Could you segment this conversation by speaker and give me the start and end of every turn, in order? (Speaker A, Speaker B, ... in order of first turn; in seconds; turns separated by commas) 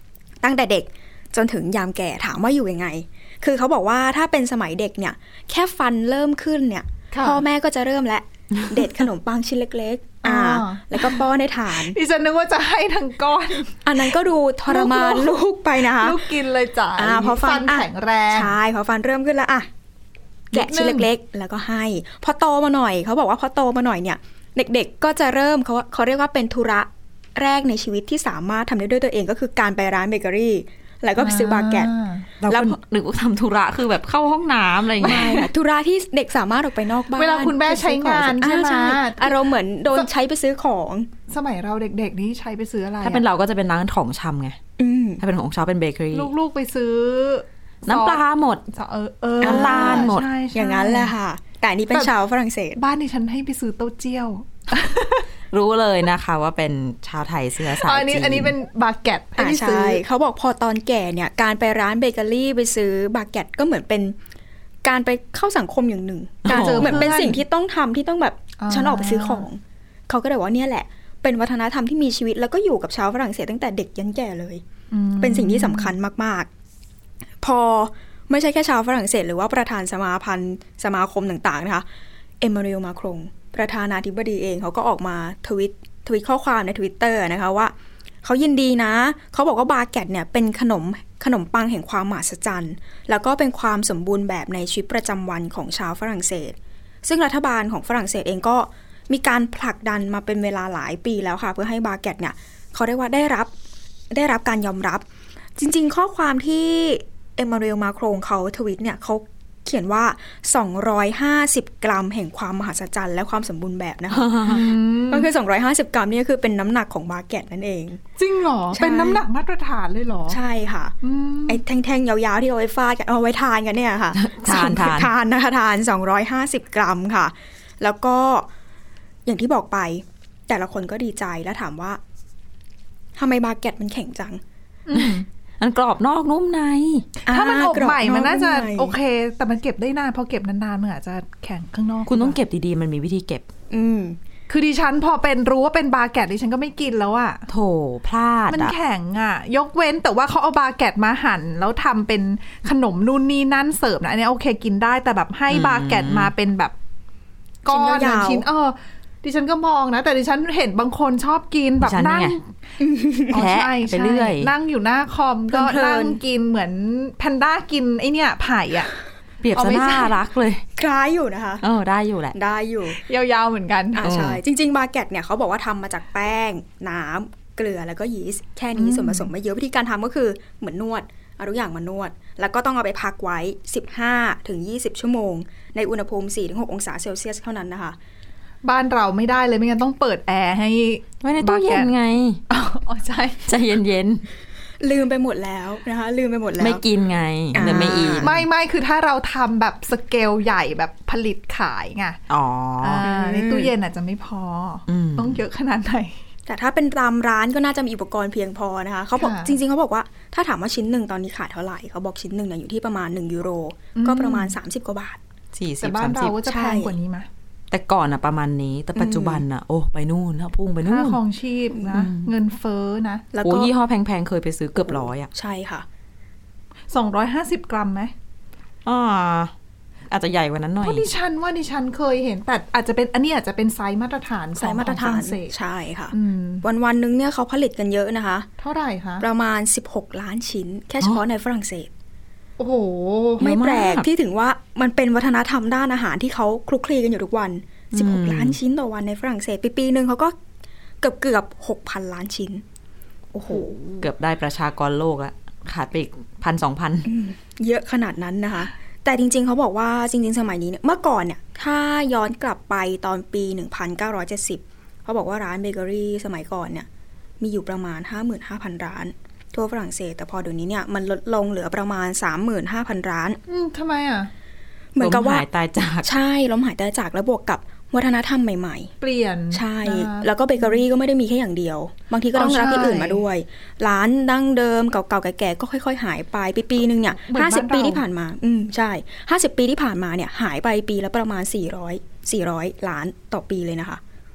Speaker A: 0.4-11.9, Speaker B: 7.1-7.4, Speaker B: 10.2-11.2, Speaker B: 11.8-13.8, Speaker A: 13.8-16.3, Speaker B: 14.7-18.5, Speaker A: 17.0-19.7, Speaker B: 20.5-21.1, Speaker A: 20.5-31.9, Speaker B: 31.2-32.3, Speaker C: 32.4-35.5, Speaker A: 32.5-32.8, Speaker A: 35.0-41.1, Speaker B: 37.1-40.1, Speaker B: 41.3-43.2, Speaker C: 43.0-44.6, Speaker A: 44.8-45.2, Speaker C: 45.2-46.3, Speaker B: 46.1-51.1, Speaker C: 47.8-48.6, Speaker A: 49.4-52.8, Speaker C: 49.4-50.3, Speaker B: 52.8-55.3, Speaker C: 55.5-58.5, Speaker B: 57.6-60.0, Speaker A: 59.4-64.1, Speaker A: 64.8-74.6, Speaker C: 66.4-67.1, Speaker B: 66.5-67.4, Speaker B: 68.6-69.5, Speaker B: 74.9-76.0, Speaker A: 75.2-76.5, Speaker A: 77.4-81.8, Speaker A: 82.4-87.7, Speaker A: 88.2-103.5, Speaker A: 104.1-105.0, Speaker A: 105.5-118.0, Speaker C: 114.1-114.6, Speaker B: 114.5-115.3, Speaker B: 118.2-120.4, Speaker A: 118.7-119.2, Speaker A: 120.3-121.0, Speaker B: 121.0-121.6, Speaker A: 121.5-128.5, Speaker C: 124.1-125.1, Speaker A: 129.2-132.0, Speaker A: 133.2-134.4, Speaker B: 134.9-135.2, Speaker C: 134.9-137.1, Speaker B: 137.2-142.4, Speaker A: 137.3-138.9, Speaker C: 142.1-143.5, Speaker A: 143.7-144.2, Speaker B: 144.5-147.4, Speaker C: 147.5-148.7, Speaker B: 148.5-156.7, Speaker C: 155.5-156.3, Speaker B: 157.6-162.5, Speaker A: 157.7-158.4, Speaker C: 161.8-162.3, Speaker A: 162.8-163.4, Speaker B: 163.3-168.9, Speaker C: 163.3-164.5, Speaker C: 165.5-166.1, Speaker A: 165.6-166.0, Speaker C: 169.4-170.6, Speaker B: 169.5-170.1, Speaker A: 170.8-171.7, Speaker C: 171.6-172.3, Speaker A: 172.3-173.0, Speaker B: 173.0-174.1, Speaker A: 173.9-187.9, Speaker C: 174.0-174.4, Speaker B: 178.8-179.3, Speaker B: 188.6-191.9, Speaker C: 191.2-192.4, Speaker B: 192.5-193.4, Speaker C: 193.4-194.2, Speaker A: 194.8-196.8, Speaker C: 196.6-198.4, Speaker A: 197.5-198.3, Speaker B: 198.2-202.2, Speaker C: 202.3-203.0, Speaker B: 202.8-206.2, Speaker A: 203.0-203.7, Speaker C: 204.9-205.4, Speaker A: 206.5-215.2, Speaker B: 209.2-209.6, Speaker B: 213.9-214.5, Speaker C: 215.5-216.4, Speaker B: 215.8-217.3, Speaker A: 216.4-216.9, Speaker C: 217.7-221.2, Speaker A: 218.9-219.4, Speaker B: 220.8-223.2, Speaker C: 221.9-222.3, Speaker A: 223.3-223.7, Speaker C: 223.4-225.3, Speaker A: 224.9-225.8, Speaker B: 226.9-228.1, Speaker C: 228.8-229.5, Speaker C: 230.1-231.1, Speaker B: 230.8-235.5, Speaker A: 234.6-238.5, Speaker B: 236.1-236.6, Speaker B: 238.6-239.2, Speaker A: 239.2-241.9, Speaker B: 242.6-243.4, Speaker C: 243.4-244.1, Speaker A: 243.4-250.3, Speaker C: 247.9-248.6, Speaker A: 251.0-252.6, Speaker B: 253.3-254.0, Speaker C: 254.0-257.1, Speaker A: 257.1-266.9, Speaker A: 267.4-273.4, Speaker B: 273.5-274.3, Speaker A: 274.9-275.4, Speaker C: 275.0-276.1, Speaker A: 276.0-278.9, Speaker B: 279.0-280.8, Speaker A: 279.5-294.0, Speaker B: 282.3-283.2, Speaker B: 287.3-288.0